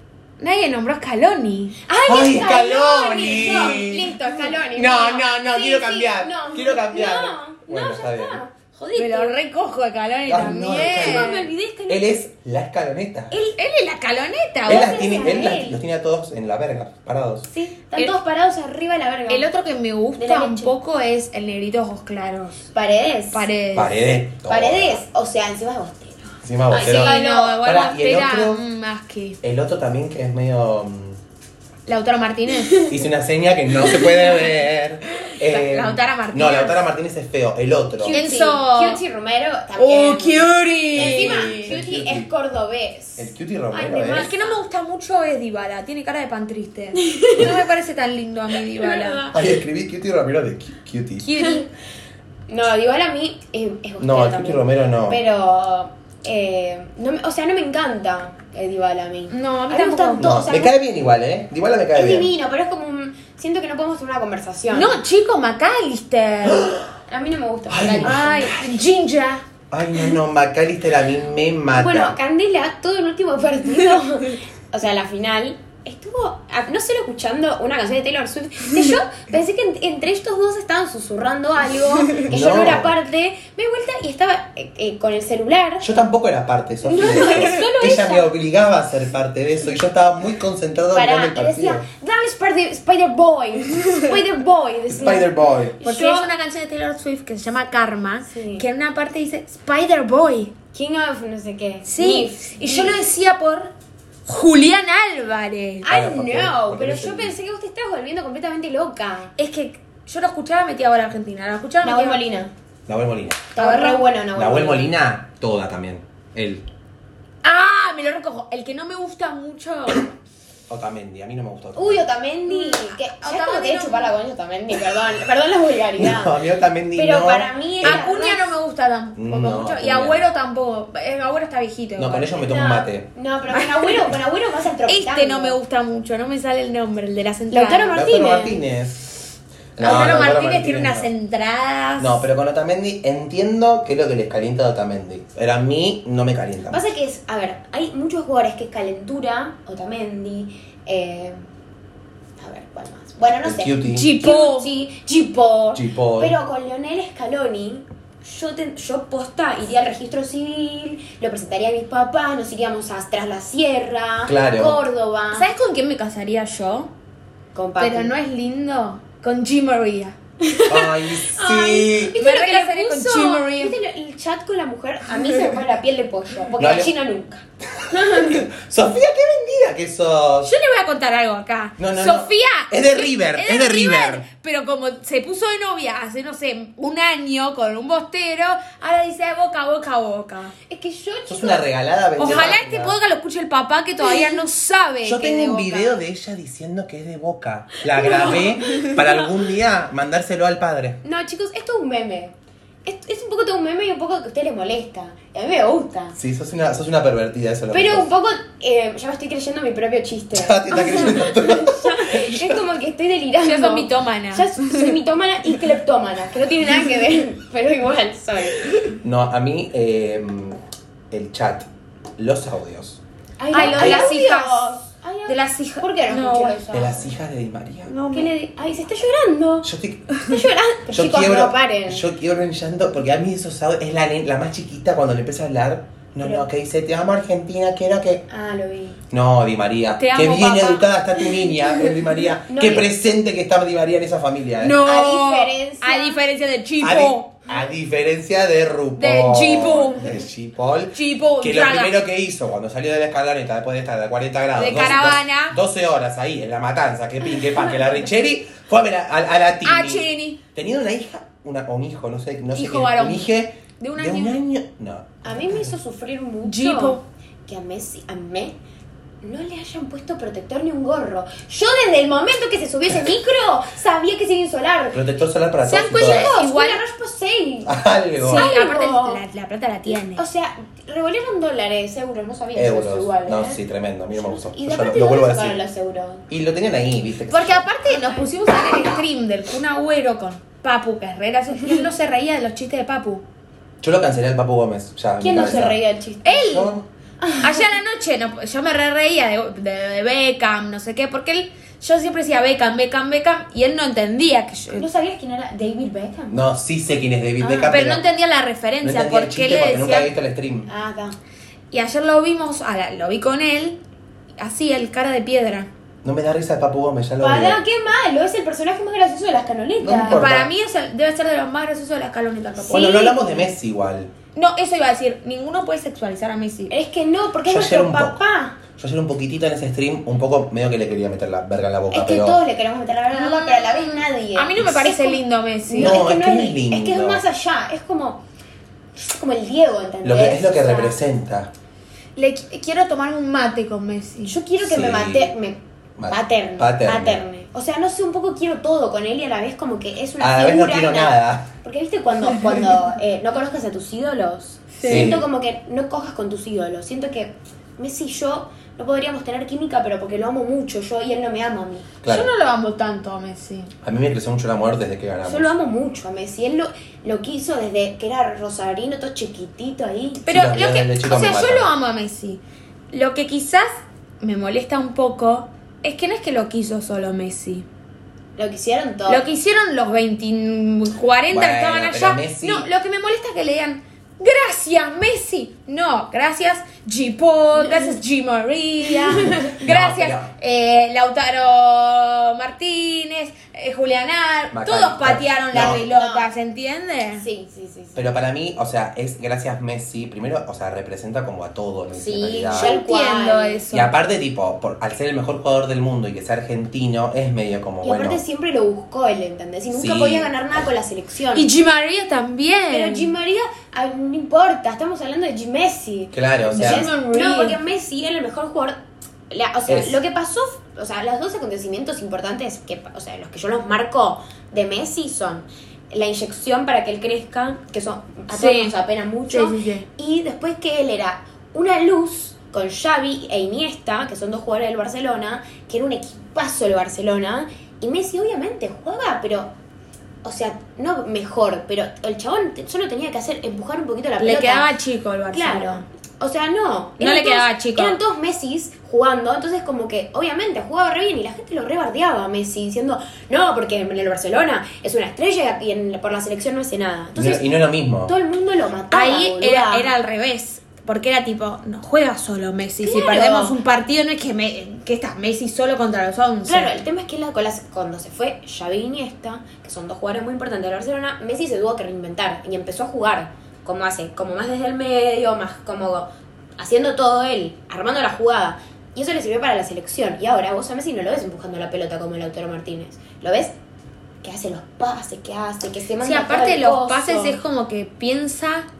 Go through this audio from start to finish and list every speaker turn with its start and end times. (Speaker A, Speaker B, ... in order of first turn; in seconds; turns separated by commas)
Speaker A: 0.4-1.8, Speaker B: 1.9-9.3, Speaker C: 2.0-4.2, Speaker A: 3.5-3.8, Speaker C: 4.7-8.4, Speaker A: 8.9-11.5, Speaker C: 10.3-13.3, Speaker B: 10.8-12.2, Speaker B: 13.3-13.6, Speaker A: 13.6-15.1, Speaker B: 14.7-15.8, Speaker C: 14.7-17.5, Speaker B: 17.5-19.5, Speaker A: 19.3-22.7, Speaker B: 20.2-20.7, Speaker B: 22.7-23.5, Speaker A: 23.3-24.0, Speaker C: 23.7-25.0, Speaker B: 24.4-27.6, Speaker C: 26.4-28.6, Speaker A: 26.8-29.4, Speaker C: 29.4-31.2, Speaker A: 31.9-32.9, Speaker B: 32.5-33.0, Speaker C: 32.9-38.2, Speaker B: 33.8-34.1, Speaker A: 35.4-36.8, Speaker B: 38.0-43.3, Speaker A: 38.1-39.0, Speaker A: 39.8-41.8, Speaker C: 40.9-42.3, Speaker C: 43.2-44.3, Speaker A: 43.7-49.3, Speaker B: 43.9-44.3, Speaker B: 47.0-47.6, Speaker B: 48.7-49.4, Speaker C: 49.3-51.3, Speaker A: 51.2-51.7, Speaker B: 52.5-60.7, Speaker C: 54.0-55.2, Speaker A: 59.3-60.3, Speaker C: 60.2-62.3, Speaker B: 61.9-65.0, Speaker A: 64.7-66.7, Speaker C: 66.5-66.9, Speaker B: 67.1-68.3, Speaker C: 67.7-68.8, Speaker A: 68.0-69.4, Speaker C: 69.7-72.2, Speaker B: 71.7-85.9, Speaker C: 82.2-82.9, Speaker C: 85.8-91.9, Speaker B: 86.8-88.3, Speaker B: 90.9-96.3, Speaker C: 94.9-95.8, Speaker A: 95.8-100.5, Speaker B: 98.3-98.7, Speaker B: 100.7-103.0, Speaker A: 101.8-103.7, Speaker A: 104.3-105.9, Speaker B: 105.8-109.3, Speaker C: 105.9-107.3, Speaker A: 109.4-112.2, Speaker B: 111.8-112.5, Speaker C: 112.9-113.5, Speaker B: 113.5-114.9, Speaker A: 113.6-114.1, Speaker C: 114.3-116.7, Speaker A: 117.4-120.1, Speaker C: 120.7-122.1, Speaker B: 121.8-126.4, Speaker A: 122.5-124.1, Speaker C: 126.0-128.0, Speaker B: 126.9-128.5, Speaker A: 127.8-132.3, Speaker C: 129.2-130.3, Speaker C: 132.0-133.1, Speaker B: 132.3-135.6, Speaker A: 133.5-133.9, Speaker A: 134.9-138.0, Speaker B: 137.5-138.6, Speaker C: 137.9-139.0, Speaker C: 139.8-141.1, Speaker A: 139.8-142.2, Speaker C: 142.0-146.9, Speaker B: 146.7-151.4, Speaker B: 152.4-165.5, Speaker C: 153.4-154.1, Speaker A: 153.8-154.7, Speaker C: 155.7-156.3, Speaker C: 164.2-164.8, Speaker A: 165.3-166.9, Speaker B: 167.5-168.1, Speaker A: 167.8-170.2, Speaker B: 170.4-178.4, Speaker C: 170.7-172.2, Speaker A: 172.2-173.7, Speaker C: 176.6-176.9, Speaker C: 177.8-180.5, Speaker A: 180.4-190.5, Speaker C: 181.8-184.2, Speaker B: 190.7-191.7, Speaker C: 191.2-193.0, Speaker A: 192.2-196.0, Speaker C: 195.0-201.0, Speaker B: 197.9-199.2, Speaker B: 201.0-206.2, Speaker C: 206.2-208.1, Speaker B: 207.7-218.9, Speaker C: 210.3-212.6, Speaker A: 213.4-214.9, Speaker C: 219.0-220.6, Speaker C: 221.1-223.0, Speaker B: 223.4-227.1, Speaker A: 223.5-226.6, Speaker C: 223.6-224.1, Speaker C: 226.7-227.9, Speaker A: 227.9-228.3, Speaker B: 228.1-229.7, Speaker C: 229.6-230.2, Speaker B: 230.2-232.1, Speaker C: 230.9-238.2, Speaker B: 236.2-236.5, Speaker B: 238.3-239.0, Speaker C: 239.1-244.8, Speaker A: 240.0-240.9, Speaker B: 242.5-242.9, Speaker A: 244.6-247.3, Speaker B: 244.8-246.2, Speaker C: 246.8-265.7, Speaker A: 248.9-250.1, Speaker A: 250.9-252.0, Speaker A: 254.6-255.6, Speaker A: 259.6-260.4, Speaker A: 262.5-263.3, Speaker A: 263.8-264.4, Speaker B: 265.2-268.6, Speaker A: 266.4-267.0, Speaker B: 269.2-275.1, Speaker C: 274.9-276.3, Speaker A: 275.6-276.8, Speaker B: 275.9-279.2, Speaker C: 277.6-278.5, Speaker A: 278.2-280.2, Speaker B: 279.9-283.6, Speaker C: 282.5-285.6, Speaker B: 284.1-286.2, Speaker C: 286.3-287.7, Speaker A: 287.3-293.2, Speaker B: 287.9-288.3, Speaker C: 293.8-295.8, Speaker B: 295.2-296.5, Speaker A: 296.2-296.8, Speaker C: 296.4-296.9, Speaker B: 297.2-297.7, Speaker A: 297.4-304.9, Speaker B: 304.7-306.4, Speaker C: 306.3-308.0, Speaker B: 307.4-307.8, Speaker A: 307.7-310.1, Speaker C: 308.8-310.7, Speaker B: 310.7-311.2, Speaker A: 311.7-313.8, Speaker A: 314.4-315.7, Speaker C: 316.0-317.6, Speaker B: 317.2-320.2, Speaker C: 319.8-320.5, Speaker A: 320.1-323.4, Speaker C: 322.7-324.1, Speaker B: 322.7-323.3, Speaker A: 324.3-326.7, Speaker B: 326.7-328.6, Speaker C: 327.5-328.2, Speaker C: 328.8-332.4, Speaker B: 331.9-338.2, Speaker A: 333.1-336.0, Speaker C: 335.8-337.2, Speaker B: 338.9-341.0, Speaker C: 340.0-341.5, Speaker A: 342.1-344.4, Speaker B: 344.2-361.9, Speaker C: 344.6-345.3, Speaker C: 346.0-347.2, Speaker C: 350.2-351.5, Speaker A: 354.7-355.2, Speaker C: 354.9-355.2, Speaker C: 362.0-362.3, Speaker A: 362.1-363.7, Speaker C: 363.8-365.5, Speaker B: 365.2-370.2, Speaker A: 370.2-372.4, Speaker C: 370.3-371.7, Speaker A: 372.9-373.7, Speaker A: 374.2-377.6, Speaker B: 378.4-379.2, Speaker A: 379.1-397.2, Speaker C: 381.3-382.7, Speaker B: 389.2-389.5, Speaker C: 389.6-390.3, Speaker C: 394.5-395.8, Speaker B: 395.5-396.3, Speaker B: 397.2-398.1, Speaker C: 397.9-402.7, Speaker B: 401.9-403.6, Speaker A: 402.5-403.9, Speaker C: 403.7-408.2, Speaker B: 407.8-411.5, Speaker C: 409.7-410.3, Speaker A: 411.3-413.1, Speaker B: 412.7-418.8, Speaker C: 416.1-416.9, Speaker A: 416.5-417.6, Speaker B: 419.3-439.5, Speaker C: 419.7-420.0, Speaker A: 428.3-428.8, Speaker A: 429.3-429.9, Speaker B: 440.2-444.7, Speaker A: 444.2-445.9, Speaker B: 445.3-457.4, Speaker A: 447.0-448.0, Speaker C: 457.1-458.1, Speaker B: 458.1-459.9, Speaker A: 458.9-466.7, Speaker B: 462.8-463.6, Speaker B: 466.4-483.5, Speaker B: 484.2-487.4, Speaker A: 486.0-488.6